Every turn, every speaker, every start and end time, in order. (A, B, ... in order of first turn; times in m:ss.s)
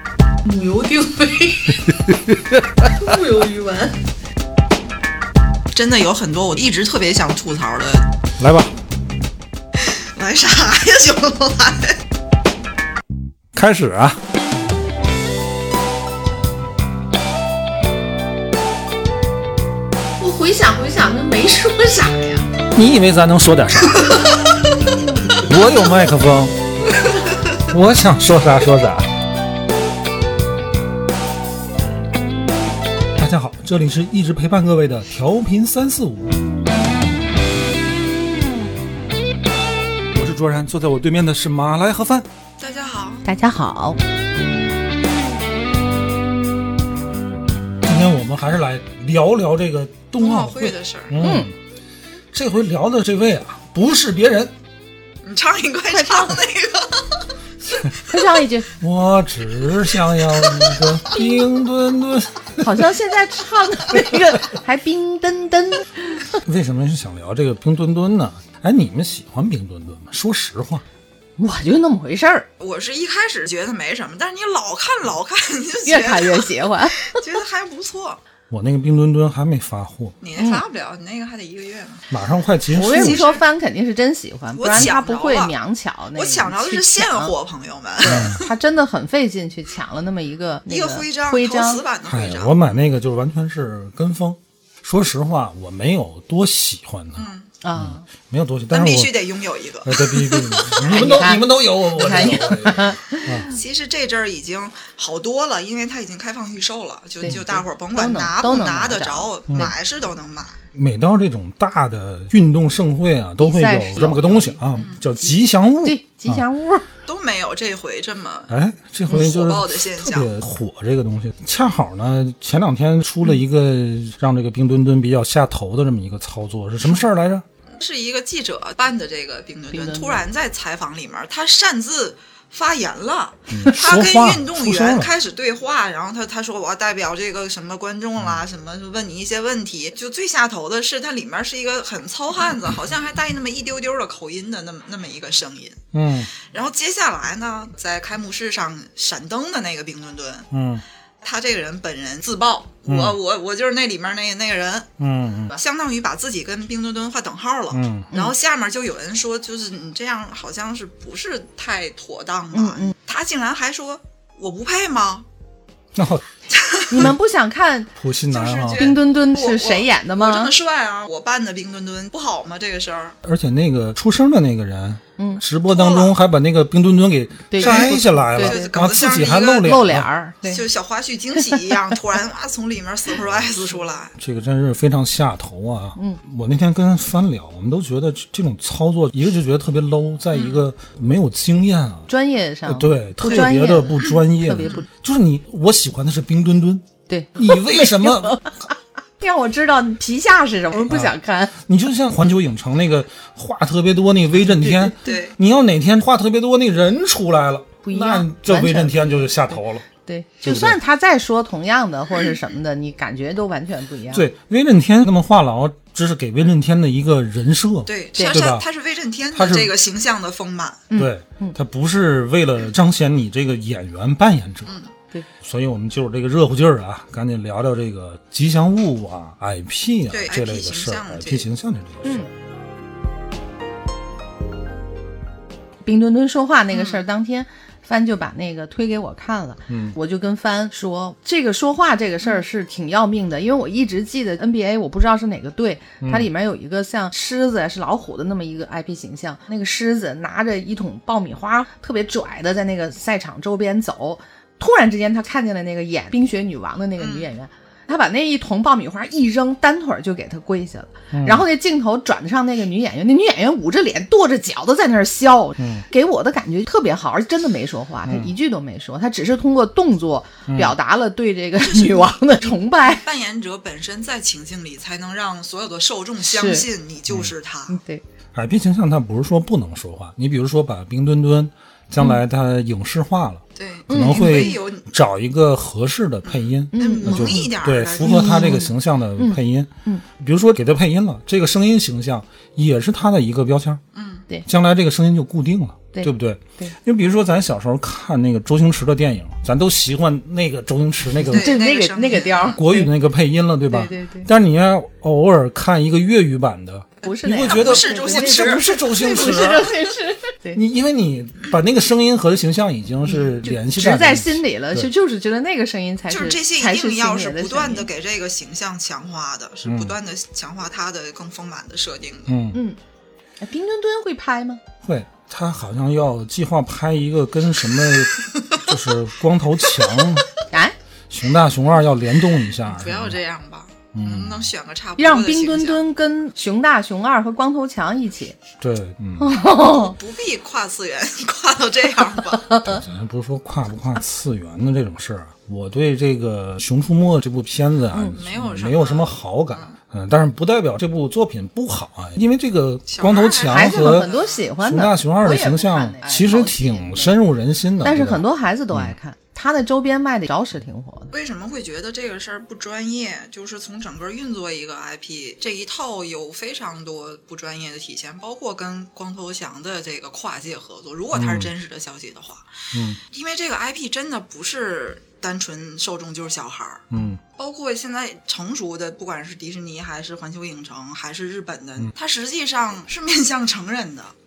0:00.4-0:01.9 A
0:01.9-0:02.9 B
0:02.8-0:04.0 A
0:05.7-0:08.0 C
0:08.4-0:08.7 B
0:09.8-0:12.0 C
0:13.5-0:14.2 B
0:20.2-0:22.5 A
0:22.7-0:24.2 B
0:25.3-0:26.6 B
0:27.6-0:29.1 B
0:33.1-0:36.4 B
0:40.1-0:42.3 B
0:42.6-0:43.2 C
0:43.2-0:44.0 A
0:47.8-0:51.5 B
0:50.2-0:51.2 C
0:51.2-0:51.5 A
0:52.3-0:54.5 B
0:55.2-0:57.3 C
0:55.9-0:56.4 A
0:58.0-0:58.7 A
0:58.8-1:02.8 B
1:00.0-1:00.9 C
1:02.6-1:06.4 A
1:06.4-1:10.8 B
1:11.4-1:12.5 A
1:12.6-1:18.2 C
1:15.8-1:17.2 A
1:18.5-1:20.1 B
1:20.2-1:22.1 C
1:20.4-1:20.6 A
1:22.1-1:23.2 B
1:22.7-1:27.3 A
1:22.9-1:23.4 C
1:24.5-1:25.5 C
1:26.1-1:28.5 C
1:28.0-1:31.8 A
1:28.0-1:28.4 B
1:30.7-1:32.5 C
1:32.0-1:39.2 B
1:37.2-1:37.5 C
1:37.6-1:38.0 A
1:38.7-1:41.1 C
1:39.8-1:43.5 B
1:40.8-1:43.6 A
1:42.1-1:42.4 C
1:43.5-1:50.6 C
1:47.2-1:49.7 A
1:47.2-1:47.6 B
1:50.7-1:56.4 B
1:53.4-1:54.6 A
1:54.7-1:55.0 C
1:55.8-1:56.8 A
1:57.0-1:58.5 C
1:58.5-2:07.4 B
1:59.1-2:00.3 C
2:07.7-2:25.8 C
2:09.7-2:10.2 A
2:13.5-2:15.1 B
2:25.9-2:26.3 B
2:26.4-2:30.5 C
2:30.5-2:30.8 B
2:31.2-2:34.9 C
2:32.8-2:33.2 B
2:35.0-2:35.6 B
2:35.5-2:45.2 C
2:37.7-2:38.1 B
2:42.5-2:42.9 A
2:45.9-2:46.3 B
2:46.5-2:47.0 C
2:46.9-2:47.9 A
2:48.0-2:48.9 B
2:48.3-2:53.2 C
2:48.7-2:50.5 A
2:53.2-3:00.1 B
2:55.7-2:56.1 C
2:57.5-2:58.7 A
2:57.6-2:59.8 C
2:59.6-3:00.6 A
3:00.4-3:04.1 C
3:03.2-3:12.1 B
3:10.4-3:10.6 C
3:12.1-3:14.8 A
3:12.6-3:18.4 B
3:17.1-3:21.5 A
3:20.9-3:29.8 B
3:24.4-3:25.1 A
3:25.0-3:25.4 C
3:27.8-3:34.3 A
3:30.4-3:30.8 B
3:34.1-3:38.6 B
3:37.9-3:40.9 C
3:38.1-3:38.5 A
3:39.3-3:39.7 B
3:40.9-3:41.6 A
3:40.9-3:44.8 B
3:45.4-3:52.3 B
3:50.1-3:51.5 C
3:52.0-3:52.3 A
3:55.8-4:33.0 A
3:56.7-3:57.0 C
3:59.7-4:00.0 B
4:06.0-4:06.3 B
4:17.0-4:17.3 C
4:21.1-4:21.4 B
4:25.6-4:25.8 B
4:28.0-4:28.3 B
4:30.5-4:30.8 B
4:31.6-4:37.8 C
4:36.2-4:36.7 A
4:37.7-4:38.0 A
4:38.3-4:53.8 B
4:43.6-4:44.8 C
4:43.9-4:44.6 A
4:46.2-4:48.6 C
4:46.7-4:50.0 A
4:53.9-4:54.2 C
4:54.4-5:01.5 B
4:55.9-4:56.8 A
5:01.3-5:02.9 A
5:01.3-5:02.6 C
5:02.5-5:09.8 B
5:03.7-5:04.3 A
5:07.0-5:10.6 A
5:07.4-5:08.7 C
5:10.5-5:14.9 B
5:13.0-5:17.9 A
5:16.1-5:22.4 C
5:19.6-5:19.9 B
5:22.3-5:22.6 B
5:22.5-5:22.8 A
5:23.4-5:24.6 A
5:24.8-5:30.3 B
5:29.6-5:30.2 C
5:30.5-5:30.7 A
5:31.1-5:33.2 B
5:32.6-5:35.8 C
5:33.9-5:34.5 B
5:35.0-5:38.4 A
5:38.6-5:39.3 B
5:39.2-5:40.0 A
5:39.6-5:42.5 C
5:42.4-5:42.8 A
5:42.6-5:59.0 B
5:47.9-5:48.2 A
5:48.1-5:49.7 C
5:52.9-5:54.5 C
5:53.5-5:57.2 A
5:57.8-6:01.1 A
6:01.1-6:16.8 C
6:11.1-6:11.5 B
6:12.7-6:13.0 B
6:16.9-6:17.2 B
6:17.4-6:24.1 C